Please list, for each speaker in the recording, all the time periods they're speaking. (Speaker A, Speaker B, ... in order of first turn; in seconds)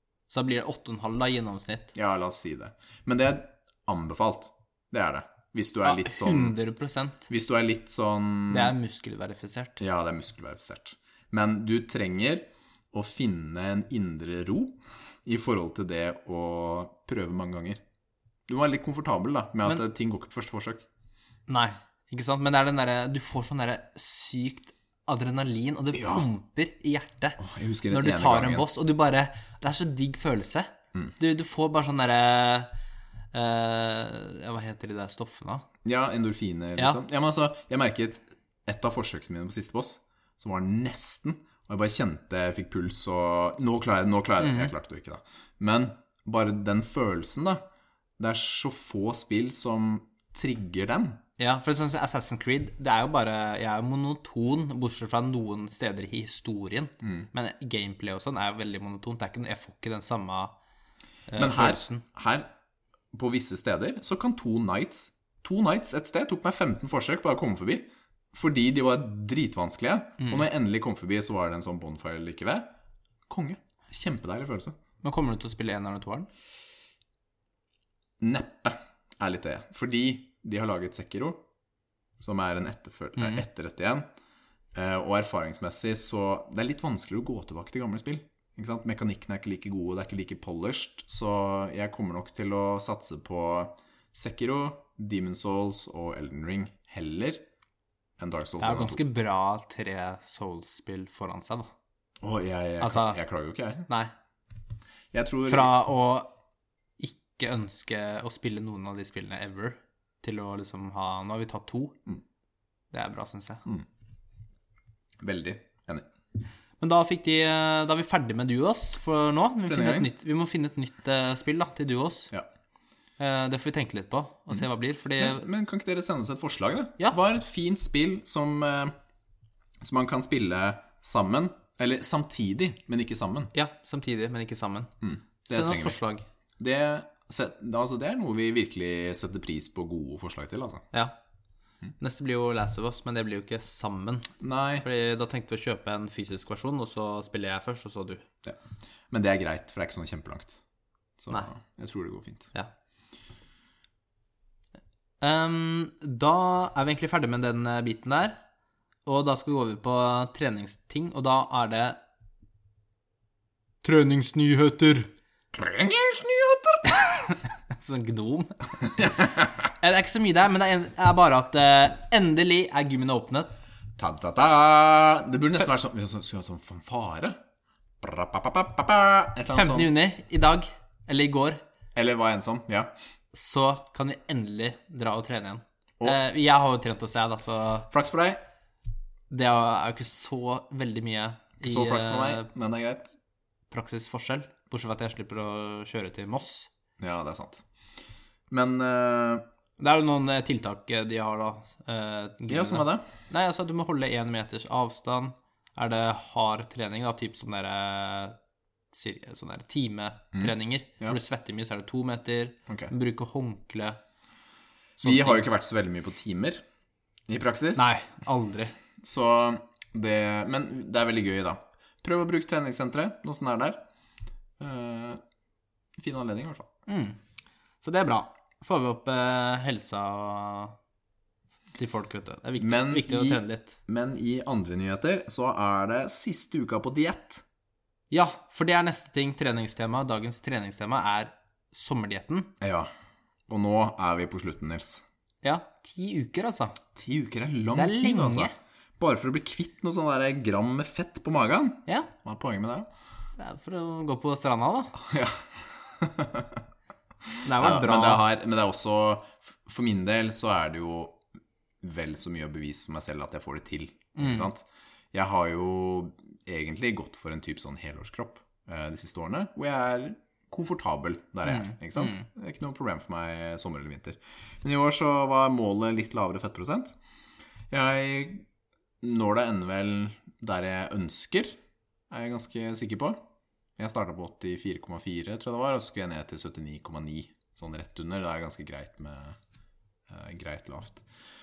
Speaker A: 0.3-1.9, 5.8-7.3, 8.5-9.8, 21.5-32.7, 33.3-35.6, 44.4-44.7, 51.4-60.5, 61.3-62.0, 75.0-76.3, 83.2-83.4, 98.6-101.7, 102.8-103.2, 105.5-106.3, 107.0-112.0, 112.9-113.6, 116.8-122.3, 123.2-125.5, 133.5-134.9, 135.5-136.2, 142.0-148.2, 155.2-158.4, 159.1-162.0, 163.8-165.1, 166.8-168.9, 169.8-173.5, 179.5-181.6, 183.3-187.9, 189.3-192.5, 193.7-196.7, 199.8-208.3, 208.9-214.0, 215.0-215.4, 217.8-218.7, 226.9-227.2, 227.8-230.7, 231.8-233.8, 238.1-242.5, 245.4-246.8, 247.7-248.5, 253.4-254.9, 257.4-258.2, 264.1-264.5, 271.4-272.2
Speaker B: 1.9-6.5, 7.3-8.7, 9.8-17.8, 18.5-20.8, 25.9-26.2, 27.4-28.7, 35.8-47.6, 48.2-51.2, 61.4-62.5, 63.1-72.7, 73.3-74.8, 78.2-81.4, 82.2-84.1, 84.7-97.4, 98.2-99.0, 102.2-103.9, 105.1-105.7, 115.2-116.0, 119.7-120.1, 125.2-128.9, 129.8-133.5, 135.0-136.0, 136.6-140.8, 144.4-144.8, 148.4-150.6, 151.2-152.5, 165.5-166.9, 169.0-169.7, 174.0-177.4, 178.0-179.9, 181.9-182.9, 187.9-188.4, 191.6-193.1, 197.0-197.6, 198.5-199.4, 202.5-203.1, 210.3-211.2, 215.0-216.6, 217.3-217.9, 219.0-223.8, 224.6-225.2, 226.0-226.7, 232.6-237.4, 242.6-242.9, 243.5-245.0, 246.9-252.9, 254.9-256.6, 257.2-261.2, 261.8-277.0, 277.7-278.4, 279.0-281.6, 282.1-283.2, 283.8-289.4, 290.1-291.0